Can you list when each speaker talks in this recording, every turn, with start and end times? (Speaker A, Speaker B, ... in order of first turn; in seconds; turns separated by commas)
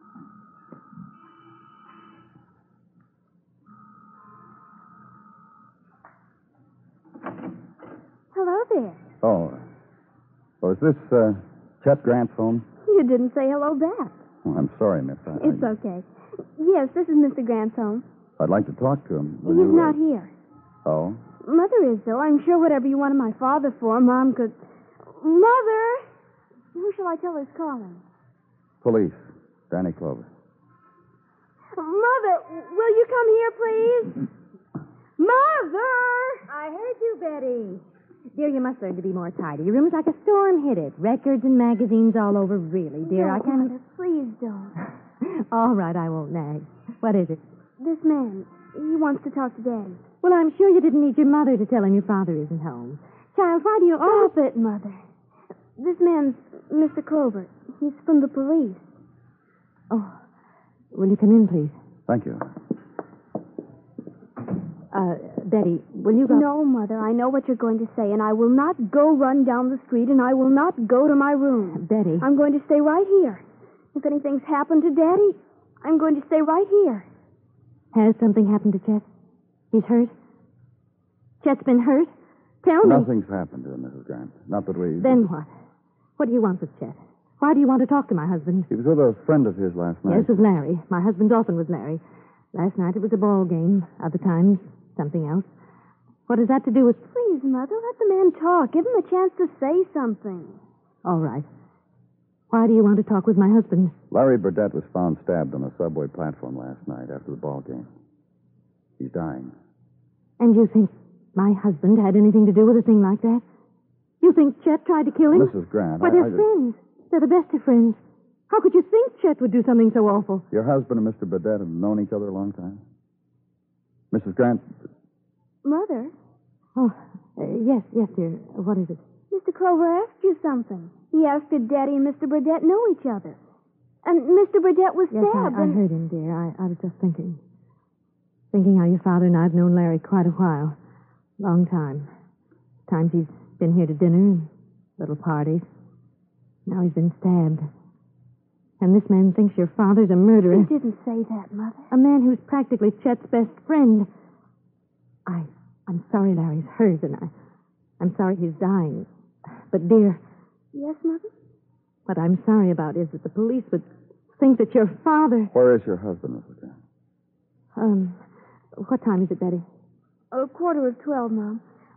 Speaker A: 8.3-9.0, Speaker B: 9.2-9.6, Speaker B: 10.6-12.6, Speaker A: 12.8-14.1, Speaker B: 14.4-15.7, Speaker A: 15.4-16.1, Speaker A: 16.6-18.0, Speaker B: 18.4-20.0, Speaker A: 19.4-20.3, Speaker B: 20.8-21.2, Speaker A: 21.4-24.5, Speaker A: 25.1-26.0, Speaker A: 26.7-28.0, Speaker B: 28.8-30.3, Speaker A: 31.8-34.3, Speaker A: 35.2-36.4, Speaker C: 36.5-37.8, Speaker C: 38.3-43.7, Speaker A: 43.0-44.8, Speaker C: 45.2-47.4, Speaker A: 47.8-50.0, Speaker C: 50.2-54.3, Speaker A: 54.0-55.0, Speaker A: 55.8-58.8, Speaker C: 59.9-60.1, Speaker C: 60.9-61.7, Speaker B: 62.1-62.5, Speaker C: 64.9-66.5, Speaker A: 66.3-73.4, Speaker C: 71.7-72.3, Speaker A: 73.9-77.1, Speaker C: 77.9-79.0, Speaker C: 79.7-80.1, Speaker C: 81.4-82.1, Speaker C: 82.6-83.1, Speaker B: 82.8-85.2, Speaker C: 85.0-85.5, Speaker C: 86.2-88.7, Speaker B: 88.7-90.3, Speaker C: 90.1-92.0, Speaker C: 92.5-95.5, Speaker C: 96.3-97.0, Speaker A: 97.1-100.6, Speaker C: 101.0-101.5, Speaker C: 102.5-103.9, Speaker B: 104.1-107.9, Speaker B: 109.0-109.5, Speaker C: 110.4-113.4, Speaker C: 114.2-120.4, Speaker B: 115.3-116.5, Speaker B: 120.5-122.8, Speaker B: 124.1-124.7, Speaker A: 125.6-126.1, Speaker C: 126.8-129.0, Speaker A: 129.3-133.4, Speaker A: 134.0-135.8, Speaker C: 135.1-137.4, Speaker C: 138.5-140.8, Speaker C: 141.4-142.1, Speaker C: 142.9-145.7, Speaker C: 146.7-147.7, Speaker C: 148.8-150.7, Speaker A: 150.5-151.8, Speaker C: 151.9-154.1, Speaker C: 155.2-157.3, Speaker C: 158.0-159.1, Speaker C: 159.7-160.2, Speaker A: 160.7-161.3, Speaker C: 162.1-165.5, Speaker B: 165.5-166.7, Speaker C: 167.7-168.2, Speaker C: 168.8-169.6, Speaker A: 170.3-171.6